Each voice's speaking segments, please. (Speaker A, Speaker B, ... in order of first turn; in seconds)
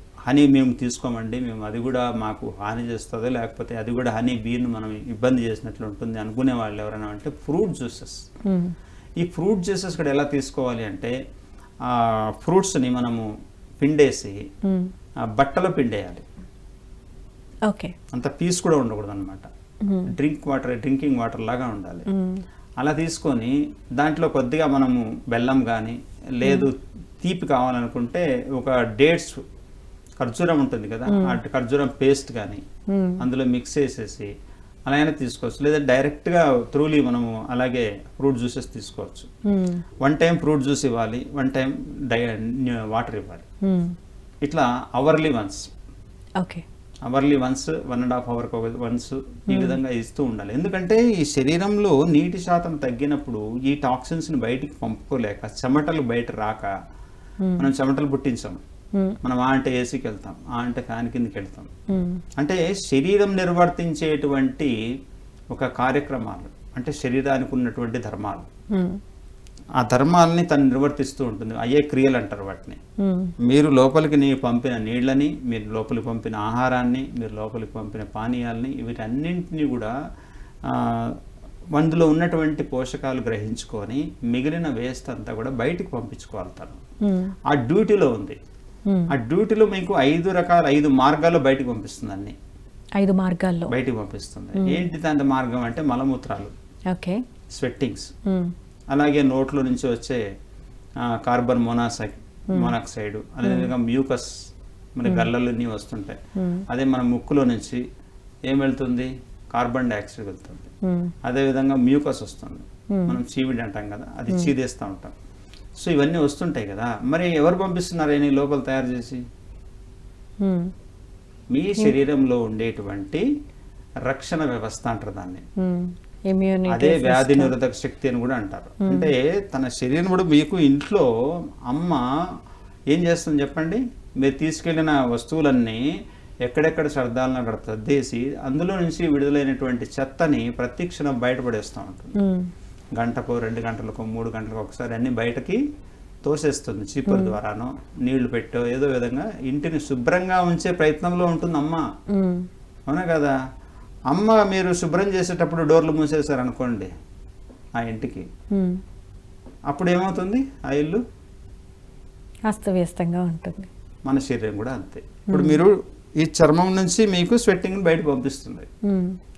Speaker A: 0.3-8.2, 9.2-11.1, 11.9-13.3, 13.8-14.4, 15.4-16.2, 18.1-19.5, 20.1-22.1, 22.8-29.4, 30.2-32.6, 33.2-34.3, 34.9-39.3, 40.0-43.5, 44.5-45.6, 47.1-56.7, 57.6-58.6, 59.2-61.7, 62.4-64.7, 65.5-68.5, 69.8-72.8, 73.5-79.9, 80.7-81.1, 81.8-86.8, 87.5-88.4, 89.1-92.3, 93.7-96.5, 97.6-98.1, 98.9-100.2, 101.1-104.3, 105.0-106.2, 106.7-107.8, 108.5-110.7, 111.2-115.1, 115.8-119.2, 121.5-123.2, 124.1-125.4, 126.7-131.1, 131.7-132.0, 132.9-135.8, 136.5-142.2, 143.0-145.6, 146.2-151.8, 152.9-153.3, 154.1-156.9, 157.8-158.2, 159.7-161.0, 164.1-168.7
Speaker B: 8.5-8.8, 14.6-14.9, 19.8-20.1, 22.1-22.4, 32.9-33.2, 39.5-39.8, 43.7-44.0, 46.4-46.6, 49.5-49.8, 61.9-62.2, 68.7-69.0, 73.0-73.3, 87.0-87.3, 93.0-93.7, 94.6-94.8, 96.9-97.2, 98.2-98.5, 106.4-106.7, 110.8-111.1, 120.4-120.7, 125.6-127.5, 128.8-129.1, 142.2-142.5, 147.1-147.4, 152.1-152.5, 158.6-158.8, 162.5-163.7, 165.3-165.6, 168.9-169.2